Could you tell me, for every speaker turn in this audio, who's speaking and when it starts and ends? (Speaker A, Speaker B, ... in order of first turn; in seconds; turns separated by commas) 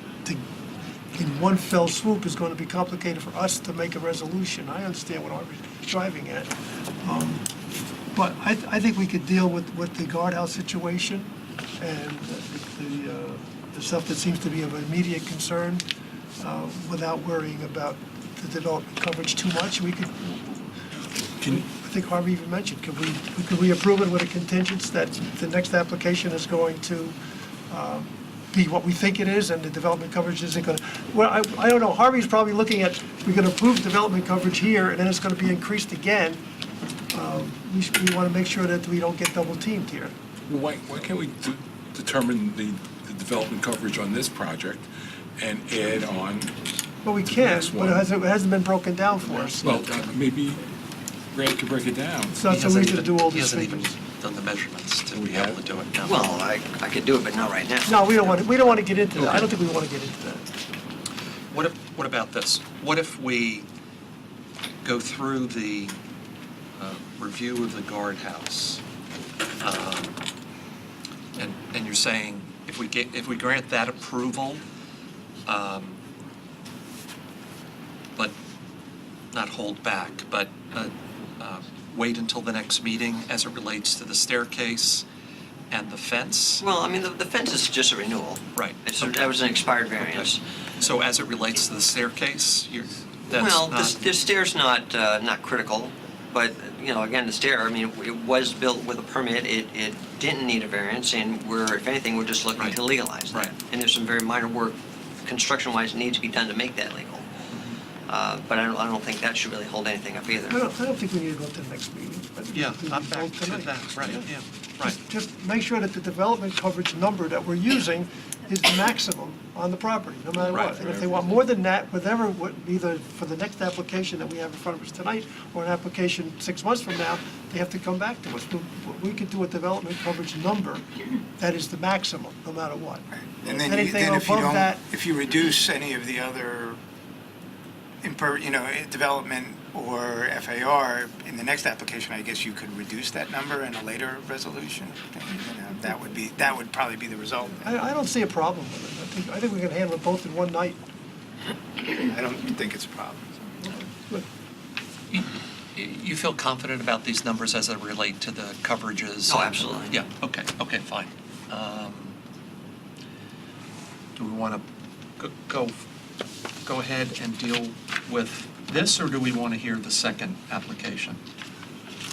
Speaker A: 1.1-7.5, Speaker A: 8.1-15.8, Speaker A: 16.4-20.7, Speaker A: 21.5-27.2, Speaker A: 27.7-36.4, Speaker A: 37.1-40.1, Speaker B: 40.5-44.9, Speaker B: 45.4-46.6, Speaker A: 47.0-49.6, Speaker B: 47.2-48.1, Speaker B: 49.3-50.6, Speaker B: 51.3-52.4, Speaker A: 52.3-53.9, Speaker C: 52.5-56.4, Speaker B: 55.1-55.6, Speaker D: 56.0-58.0, Speaker A: 57.9-60.5, Speaker C: 61.5-63.6, Speaker C: 64.8-66.0, Speaker C: 66.8-68.8, Speaker C: 69.6-70.2, Speaker C: 71.3-74.6, Speaker C: 75.5-76.0, Speaker C: 79.3-85.0, Speaker C: 85.7-86.6, Speaker D: 86.6-90.4, Speaker C: 88.5-94.0, Speaker D: 93.3-107.3, Speaker C: 102.6-103.5, Speaker D: 108.0-110.6, Speaker A: 110.5-114.3, Speaker C: 112.5-115.0, Speaker A: 114.8-134.8, Speaker C: 120.5-120.7, Speaker B: 120.6-121.2, Speaker E: 133.3-136.8, Speaker E: 138.0-147.7, Speaker A: 147.6-150.8, Speaker E: 151.9-153.5, Speaker A: 153.6-154.2, Speaker C: 155.1-162.2, Speaker D: 159.3-159.9, Speaker C: 164.2-164.6, Speaker C: 165.2-165.8, Speaker C: 166.6-171.2